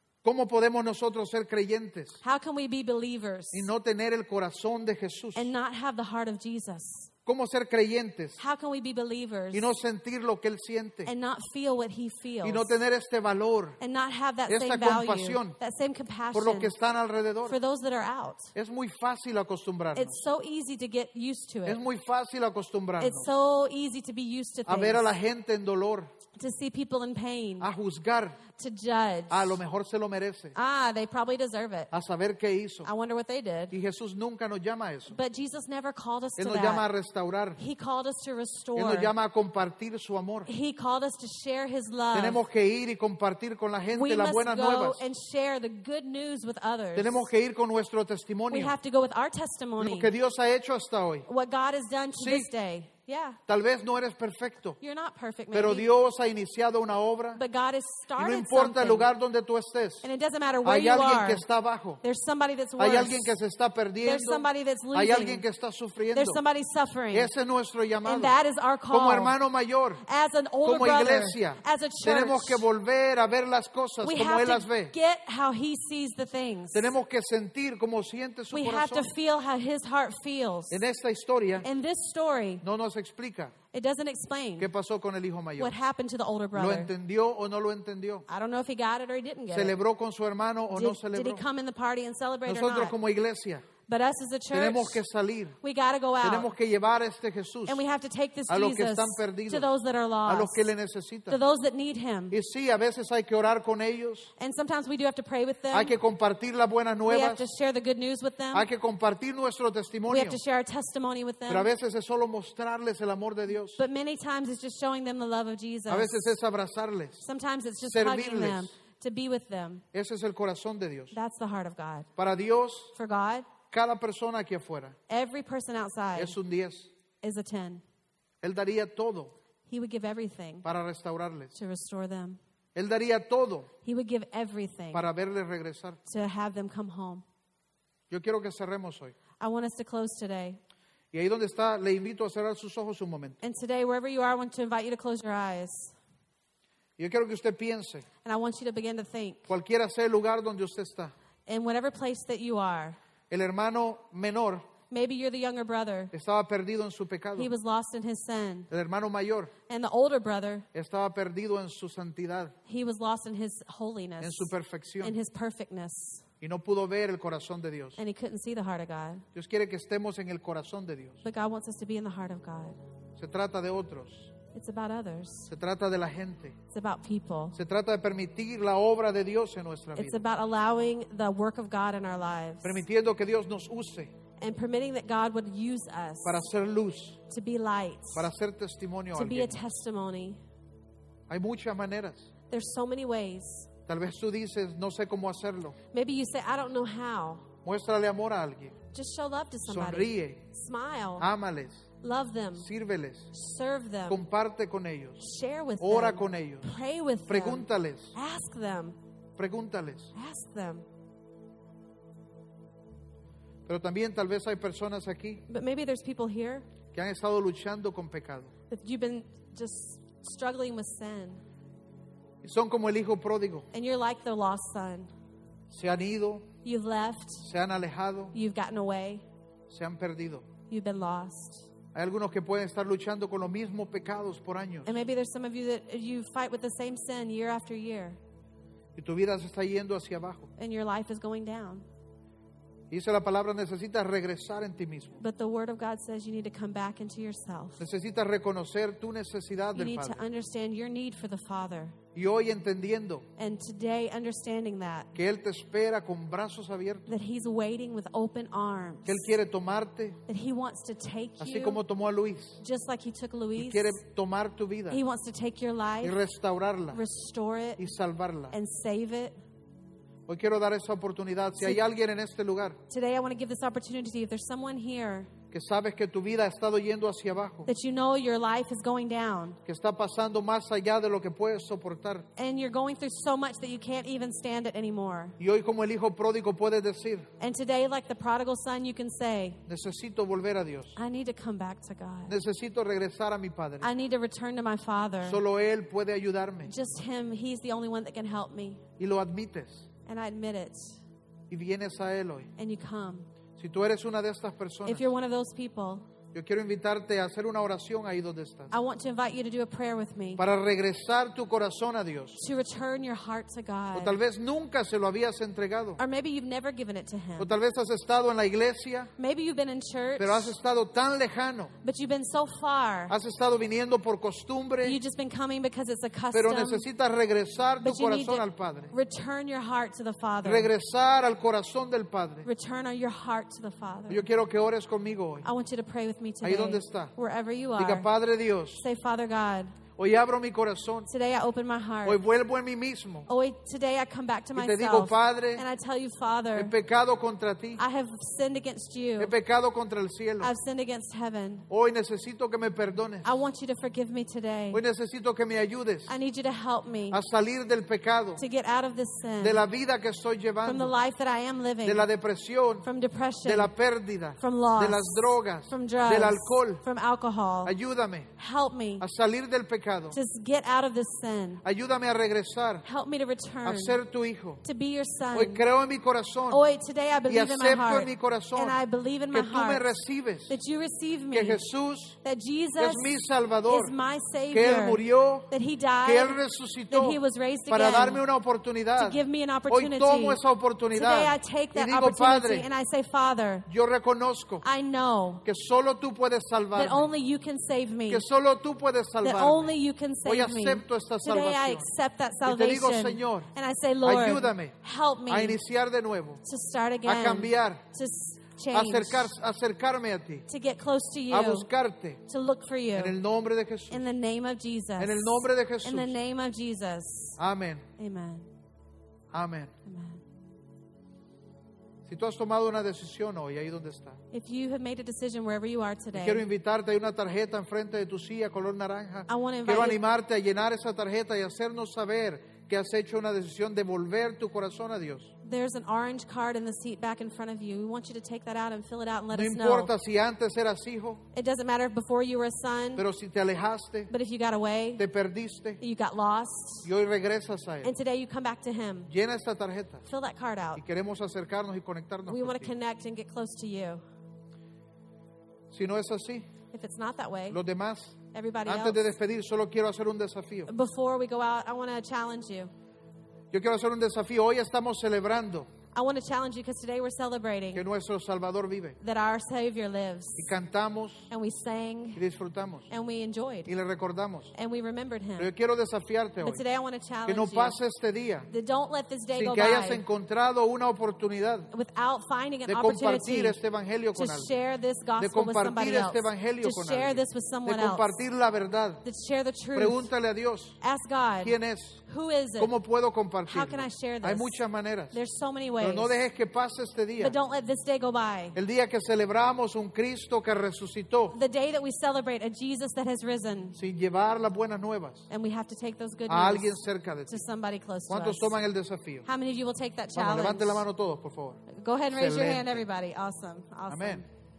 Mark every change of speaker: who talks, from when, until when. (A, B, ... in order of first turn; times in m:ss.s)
0:00.2-0:02.2 A
0:02.2-0:03.7 B
0:03.5-0:05.5 A
0:05.4-0:07.1 B
0:07.3-0:08.4 A
0:08.4-0:09.7 B
0:09.5-0:11.1 A
0:11.0-0:12.7 B
0:12.4-0:13.8 A
0:13.8-0:16.7 B
0:14.5-0:15.6 A
0:16.3-0:17.6 A
0:17.5-0:18.5 B
0:18.6-0:20.2 A
0:20.0-0:21.8 B
0:21.6-0:23.3 A
0:23.0-0:25.1 B
0:24.7-0:26.1 A
0:26.4-0:27.7 B
0:27.6-0:28.4 A
0:28.5-0:29.6 B
0:29.3-0:30.6 A
0:30.6-0:31.9 B
0:31.9-0:32.9 A
0:32.8-0:33.7 B
0:33.7-0:35.2 A
0:35.1-0:36.9 B
0:36.4-0:37.6 A
0:37.6-0:39.1 B
0:38.8-0:40.5 A
0:40.5-0:42.4 B
0:42.1-0:45.0 A
0:43.9-0:47.3 B
0:47.0-0:48.8 A
0:48.5-0:50.1 B
0:49.8-0:51.3 A
0:51.3-0:53.4 B
0:52.2-0:52.5 A
0:53.5-0:54.8 A
0:54.8-0:55.9 B
0:55.5-0:57.4 A
0:57.4-0:59.1 B
0:58.2-1:00.1 A
1:00.0-1:01.4 B
1:00.6-1:02.0 A
1:02.0-1:03.4 B
1:02.8-1:06.4 A
1:04.0-1:05.5 B
1:06.1-1:07.3 B
1:07.1-1:08.4 A
1:08.0-1:09.4 B
1:08.9-1:10.0 A
1:10.0-1:12.7 B
1:10.6-1:14.9 A
1:14.0-1:16.9 B
1:16.7-1:19.1 A
1:18.5-1:20.8 B
1:20.7-1:21.7 A
1:21.6-1:22.6 B
1:22.6-1:23.5 A
1:23.7-1:24.7 B
1:24.6-1:25.7 A
1:25.6-1:26.9 B
1:26.6-1:28.3 A
1:28.3-1:29.8 B
1:29.5-1:31.4 A
1:30.7-1:33.0 B
1:32.5-1:33.7 A
1:33.9-1:35.0 B
1:34.5-1:35.6 A
1:35.6-1:36.5 B
1:36.2-1:37.8 A
1:37.7-1:40.7 B
1:38.5-1:39.7 A
1:40.3-1:41.4 A
1:41.3-1:42.4 B
1:42.3-1:44.3 A
1:44.4-1:46.0 B
1:45.7-1:47.4 A
1:47.1-1:48.7 B
1:48.5-1:50.4 A
1:50.1-1:51.7 B
1:51.5-1:53.8 A
1:53.8-1:56.3 B
1:55.9-1:57.2 A
1:57.2-1:59.8 B
1:57.9-1:58.7 A
1:59.9-2:01.2 A
2:01.1-2:02.1 B
2:02.2-2:02.9 A
2:03.0-2:03.5 B
2:03.7-2:05.0 A
2:05.1-2:06.4 B
2:06.2-2:06.9 A
2:07.2-2:07.8 B
2:08.4-2:09.3 A
2:09.7-2:10.7 B
2:10.6-2:11.5 A
2:11.6-2:12.4 B
2:12.8-2:13.7 A
2:13.8-2:15.0 B
2:14.9-2:16.0 A
2:16.1-2:17.2 B
2:18.1-2:19.2 A
2:19.4-2:20.6 B
2:21.1-2:23.4 A
2:23.4-2:26.0 B
2:27.0-2:28.1 A
2:28.2-2:29.5 B
2:29.5-2:31.1 A
2:31.5-2:33.0 B
2:33.3-2:34.6 A
2:34.9-2:36.1 B
2:36.1-2:37.5 A
2:37.4-2:38.7 B
2:38.7-2:39.5 A
2:39.7-2:40.7 B
2:40.7-2:42.5 A
2:42.7-2:44.5 B
2:44.2-2:45.2 A
2:45.0-2:46.3 B
2:46.4-2:48.0 A
2:48.0-2:49.2 B
2:49.3-2:51.2 A
2:51.2-2:52.8 B
2:53.2-2:54.3 A
2:54.5-2:55.5 B
2:55.5-2:56.6 A
2:56.7-2:57.6 B
2:57.5-3:00.2 A
3:00.0-3:02.8 B
3:02.6-3:04.1 A
3:04.4-3:06.5 B
3:06.2-3:07.2 A
3:07.3-3:08.3 B
3:08.2-3:09.6 A
3:09.1-3:10.4 B
3:11.3-3:12.3 A
3:12.5-3:13.7 B
3:13.9-3:15.8 A
3:15.9-3:17.5 B
3:17.6-3:18.8 A
3:18.9-3:21.3 B
3:19.7-3:20.4 A
3:21.2-3:21.8 A
3:22.0-3:22.7 B
3:22.6-3:23.3 A
3:23.3-3:24.2 B
3:24.1-3:25.2 A
3:25.2-3:29.0 B
3:25.8-3:26.7 A
3:27.3-3:28.2 A
3:29.4-3:30.1 A
3:30.2-3:30.8 B
3:33.7-3:35.4 A
3:35.5-3:36.7 B
3:36.9-3:38.5 A
3:38.7-3:41.4 B
3:42.4-3:43.7 A
3:43.7-3:45.1 B
3:45.7-3:46.5 A
3:46.6-3:47.5 B
3:47.4-3:48.4 A
3:48.3-3:49.2 B
3:49.7-3:50.5 A
3:50.7-3:51.7 B
3:51.9-3:55.0 A
3:54.8-3:58.2 B
3:59.0-4:00.5 A
4:00.6-4:01.8 B
4:02.9-4:05.2 A
4:05.2-4:07.8 B
4:07.8-4:10.3 A
4:09.7-4:12.0 B
4:12.2-4:13.3 A
4:13.4-4:15.1 B
4:15.2-4:17.1 A
4:17.1-4:19.3 B
4:19.0-4:20.2 A
4:20.3-4:21.8 B
4:21.4-4:22.6 A
4:22.6-4:24.0 B
4:23.6-4:25.0 A
4:24.9-4:26.2 B
4:26.0-4:27.0 A
4:26.9-4:27.8 B
4:27.8-4:28.5 A
4:28.5-4:29.4 B
4:30.3-4:32.8 A
4:32.9-4:35.3 B
4:35.5-4:37.7 A
4:37.7-4:39.6 B
4:39.6-4:42.3 A
4:42.4-4:45.4 B
4:45.4-4:47.3 A
4:47.4-4:49.6 B
4:49.7-4:51.0 A
4:51.0-4:52.4 B
4:52.3-4:53.9 A
4:53.8-4:55.4 B
4:55.2-4:56.7 A
4:56.7-4:58.8 B
4:59.0-4:59.9 A
5:00.1-5:01.0 B
5:01.5-5:02.5 A
5:02.6-5:03.3 B
5:03.6-5:05.1 A
5:04.8-5:06.1 B
5:06.3-5:08.7 A
5:08.7-5:10.4 B
5:10.4-5:12.4 A
5:12.4-5:14.2 B
5:13.9-5:16.0 A
5:16.0-5:17.5 B
5:17.4-5:19.1 A
5:19.2-5:20.6 B
5:20.2-5:21.7 A
5:21.8-5:23.1 B
5:23.1-5:25.0 A
5:24.8-5:26.9 B
5:26.3-5:28.9 A
5:27.8-5:30.7 B
5:30.4-5:32.5 A
5:32.4-5:34.3 B
5:34.1-5:35.5 A
5:35.4-5:38.1 B
5:36.4-5:37.1 A
5:37.8-5:38.8 A
5:38.8-5:39.8 B
5:40.0-5:41.1 A
5:41.1-5:42.2 B
5:42.0-5:43.3 A
5:43.3-5:46.7 B
5:44.6-5:45.6 A
5:46.6-5:47.8 A
5:47.8-5:49.3 B
5:49.2-5:50.5 A
5:50.4-5:51.7 B
5:51.7-5:53.4 A
5:53.2-5:54.8 B
5:54.7-5:56.1 A
5:56.1-5:57.2 B
5:57.1-5:58.4 A
5:58.4-5:59.7 B
5:59.4-6:00.9 A
6:00.6-6:02.1 B
6:01.8-6:02.9 A
6:02.8-6:03.7 B
6:03.4-6:06.8 A
6:04.4-6:07.8 B
6:07.6-6:08.3 A
6:08.4-6:09.0 B
6:09.0-6:10.2 A
6:10.1-6:11.6 B
6:11.6-6:12.9 A
6:12.8-6:14.0 B
6:13.6-6:14.6 A
6:14.6-6:15.6 B
6:15.3-6:16.6 A
6:16.5-6:20.0 B
6:17.3-6:18.8 A
6:19.3-6:20.6 A
6:20.5-6:21.6 B
6:21.3-6:22.2 A
6:22.2-6:28.2 B
6:22.8-6:24.0 A
6:24.5-6:25.5 A
6:26.0-6:32.7 A
6:29.0-6:30.4 B
6:30.9-6:33.7 B
6:33.7-6:34.6 A
6:34.6-6:35.4 B
6:35.4-6:37.1 A
6:36.7-6:38.2 B
6:38.1-6:39.7 A
6:39.2-6:45.6 B
6:40.2-6:41.9 A
6:42.4-6:43.5 A
6:44.0-6:44.8 A
6:45.3-6:46.4 A
6:46.4-6:49.3 B
6:47.0-6:47.8 A
6:48.7-6:50.5 A
6:50.5-6:51.7 B
6:51.3-6:52.2 A
6:52.3-6:53.2 B
6:53.0-6:54.0 A
6:53.9-6:57.4 B
6:55.0-6:56.1 A
6:57.4-6:57.9 A
6:58.0-6:58.5 B
6:59.3-6:59.7 A
6:59.8-7:00.2 B
7:02.1-7:04.2 A
7:04.3-7:06.4 B
7:06.1-7:15.3 A
7:09.3-7:10.0 B
7:15.4-7:19.9 B
7:19.3-7:21.2 A
7:21.3-7:23.1 B
7:23.0-7:24.1 A
7:24.1-7:25.0 B
7:25.0-7:25.8 A
7:25.8-7:26.9 B
7:26.8-7:27.9 A
7:27.8-7:29.1 B
7:29.1-7:30.0 A
7:30.1-7:30.8 B
7:30.8-7:32.7 A
7:32.3-7:34.0 B
7:35.7-7:36.5 A
7:36.7-7:37.6 B
7:37.5-7:40.7 A
7:38.3-7:39.1 B
7:40.7-7:42.7 B
7:43.5-7:45.7 A
7:45.9-7:47.8 B
7:47.7-7:49.0 A
7:49.0-7:50.5 B
7:50.4-7:51.3 A
7:51.3-7:52.2 B
7:52.2-7:52.9 A
7:52.9-7:53.7 B
7:53.7-7:54.5 A
7:54.5-7:55.5 B
7:55.4-7:56.6 A
7:56.4-7:57.8 B
7:57.3-7:58.5 A
7:58.5-8:00.0 B
7:59.4-8:01.7 A
8:01.7-8:03.6 B
8:02.7-8:04.5 A
8:04.2-8:08.2 B
8:05.2-8:09.0 A
8:09.0-8:10.1 B
8:09.8-8:10.8 A
8:10.8-8:12.8 B
8:11.4-8:12.0 A
8:12.6-8:15.2 A
8:13.5-8:16.2 B
8:15.8-8:17.4 A
8:17.2-8:18.6 B
8:18.6-8:21.4 A
8:21.3-8:23.8 B
8:23.8-8:25.3 A
8:25.3-8:28.6 B
8:26.3-8:27.4 A
8:28.1-8:29.3 A
8:29.3-8:30.8 B
8:30.2-8:32.8 A
8:31.7-8:34.2 B
8:33.9-8:34.2 A